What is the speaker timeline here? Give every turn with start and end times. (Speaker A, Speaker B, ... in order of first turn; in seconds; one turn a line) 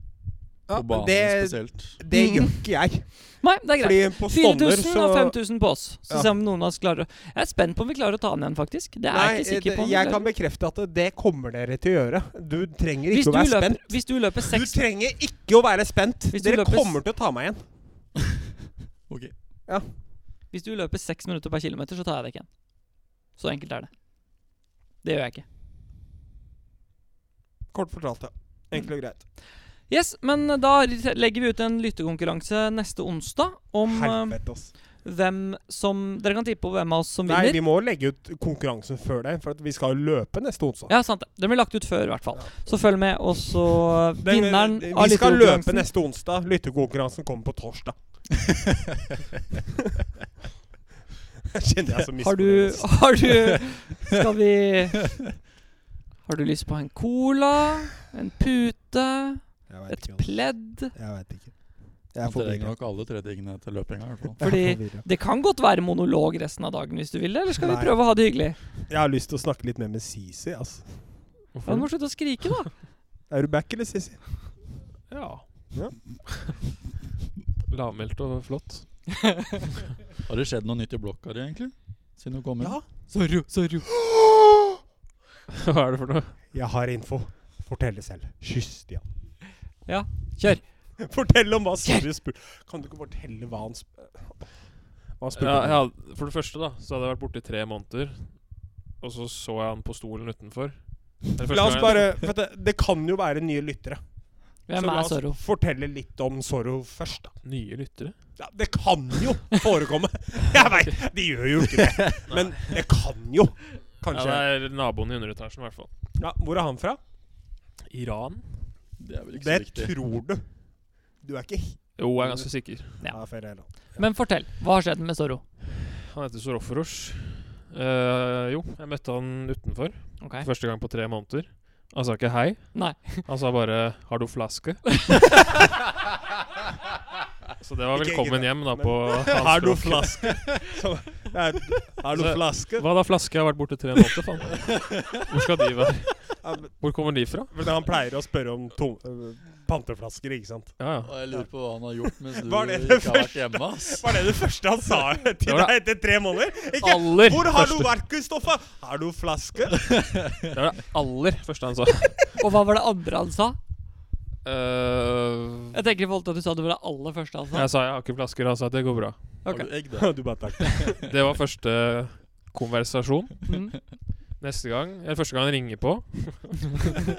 Speaker A: 0.7-5.4
Speaker B: 0.7-2.0
Speaker C: 2.1-2.5
Speaker C: 3.4-10.3
Speaker A: 9.1-17.6
Speaker C: 13.1-14.8
Speaker C: 16.3-17.0
Speaker B: 19.1-19.3
Speaker C: 20.5-23.9
Speaker C: 25.0-25.4
Speaker A: 27.7-29.2
Speaker C: 29.9-34.4
Speaker A: 33.9-34.7
Speaker C: 35.0-37.6
Speaker A: 37.2-40.9
Speaker C: 40.9-45.9
Speaker A: 44.2-48.2
Speaker A: 51.5-53.1
Speaker C: 52.2-55.0
Speaker C: 56.2-60.9
Speaker A: 59.7-61.6
Speaker A: 62.1-62.7
Speaker B: 62.2-64.4
Speaker A: 64.4-65.0
Speaker C: 64.4-68.6
Speaker A: 67.6-68.0
Speaker A: 68.9-70.9
Speaker D: 71.5-71.9
Speaker C: 71.7-72.7
Speaker A: 73.3-74.2
Speaker D: 75.1-76.1
Speaker A: 75.7-76.0
Speaker D: 77.7-79.1
Speaker B: 80.2-82.8
Speaker A: 82.6-82.8
Speaker C: 83.1-83.8
Speaker A: 83.9-84.8
Speaker D: 85.5-86.4
Speaker A: 86.5-89.0
Speaker C: 89.8-91.0
Speaker A: 91.0-95.8
Speaker D: 95.3-102.1
Speaker A: 101.5-104.0
Speaker A: 104.7-107.3
Speaker C: 104.7-105.4
Speaker D: 107.4-108.2
Speaker A: 108.4-114.5
Speaker D: 110.6-110.9
Speaker D: 112.3-112.7
Speaker D: 114.1-115.9
Speaker A: 116.2-117.0
Speaker D: 117.9-118.8
Speaker B: 119.0-119.9
Speaker A: 119.3-120.6
Speaker A: 121.2-122.5
Speaker D: 122.0-123.0
Speaker A: 123.0-124.0
Speaker C: 123.0-125.4
Speaker D: 125.9-135.6
Speaker C: 130.2-130.5
Speaker C: 132.7-133.2
Speaker D: 137.6-140.6
Speaker A: 137.9-142.9
Speaker D: 142.1-147.5
Speaker A: 146.4-146.7
Speaker A: 147.5-150.8
Speaker D: 150.8-151.1
Speaker B: 151.0-154.3
Speaker A: 152.2-160.0
Speaker D: 155.4-155.7
Speaker D: 156.8-157.9
Speaker B: 160.0-160.3
Speaker D: 160.5-162.3
Speaker C: 162.4-163.6
Speaker D: 164.4-165.8
Speaker C: 165.7-167.7
Speaker D: 167.5-169.4
Speaker C: 169.4-169.7
Speaker B: 169.4-170.9
Speaker A: 169.9-171.0
Speaker D: 170.8-173.5
Speaker C: 173.5-173.7
Speaker D: 174.4-177.0